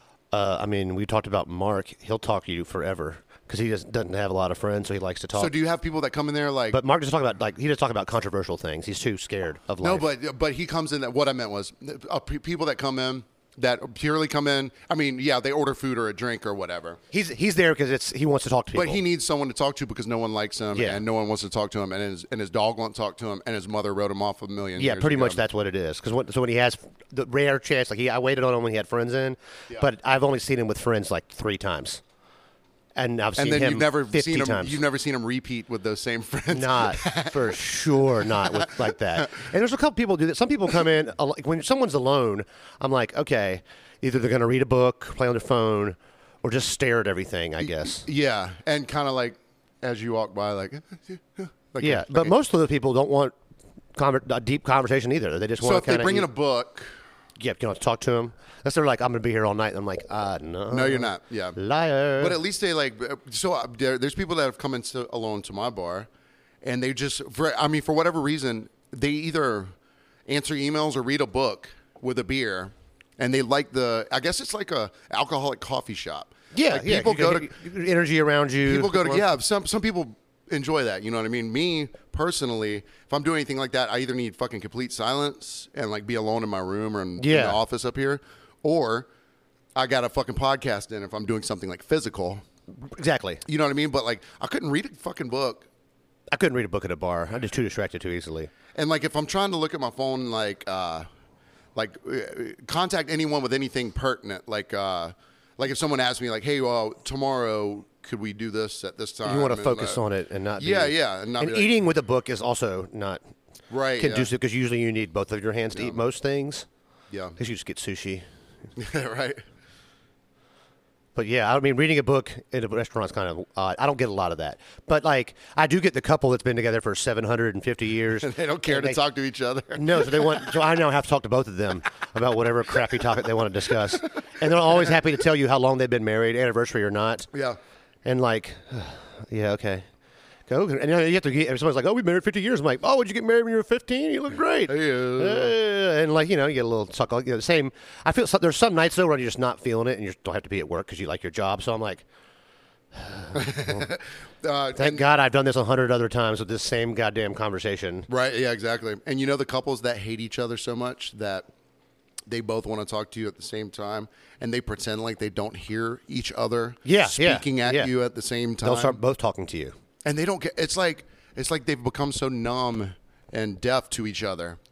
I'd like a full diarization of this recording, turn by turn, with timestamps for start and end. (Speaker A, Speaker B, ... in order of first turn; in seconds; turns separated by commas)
Speaker A: 0.3-5.5, Speaker B: 5.3-6.8, Speaker A: 6.7-10.1, Speaker B: 9.8-17.0, Speaker A: 17.1-19.0, Speaker B: 18.8-25.4, Speaker A: 20.7-21.0, Speaker A: 24.8-32.0, Speaker A: 33.0-34.8, Speaker B: 33.4-39.4, Speaker A: 36.5-48.1, Speaker B: 47.6-52.4, Speaker A: 51.8-53.4, Speaker A: 54.0-56.3, Speaker B: 55.6-56.9, Speaker A: 57.4-62.4, Speaker B: 60.7-61.6, Speaker B: 62.2-66.1, Speaker B: 66.6-69.7, Speaker B: 70.3-77.5, Speaker A: 76.5-79.3, Speaker B: 78.7-89.1, Speaker A: 87.2-87.6, Speaker B: 89.8-92.4, Speaker A: 92.8-93.4, Speaker B: 93.5-95.7, Speaker A: 96.3-98.5, Speaker B: 98.8-101.1, Speaker B: 101.8-110.0, Speaker A: 109.2-113.2, Speaker B: 110.6-111.7, Speaker B: 113.7-114.3, Speaker A: 114.0-116.7, Speaker B: 115.7-116.0, Speaker B: 117.1-117.4, Speaker A: 117.4-118.2, Speaker B: 118.8-119.4, Speaker A: 121.2-129.0, Speaker B: 128.2-130.6, Speaker A: 129.8-137.3, Speaker A: 138.1-139.9, Speaker A: 140.5-152.1, Speaker B: 144.7-145.5, Speaker A: 152.9-153.8, Speaker B: 153.3-155.1, Speaker A: 154.8-158.1, Speaker B: 158.1-161.5, Speaker B: 162.3-169.0, Speaker A: 166.8-167.9, Speaker A: 168.6-169.7, Speaker B: 170.1-174.6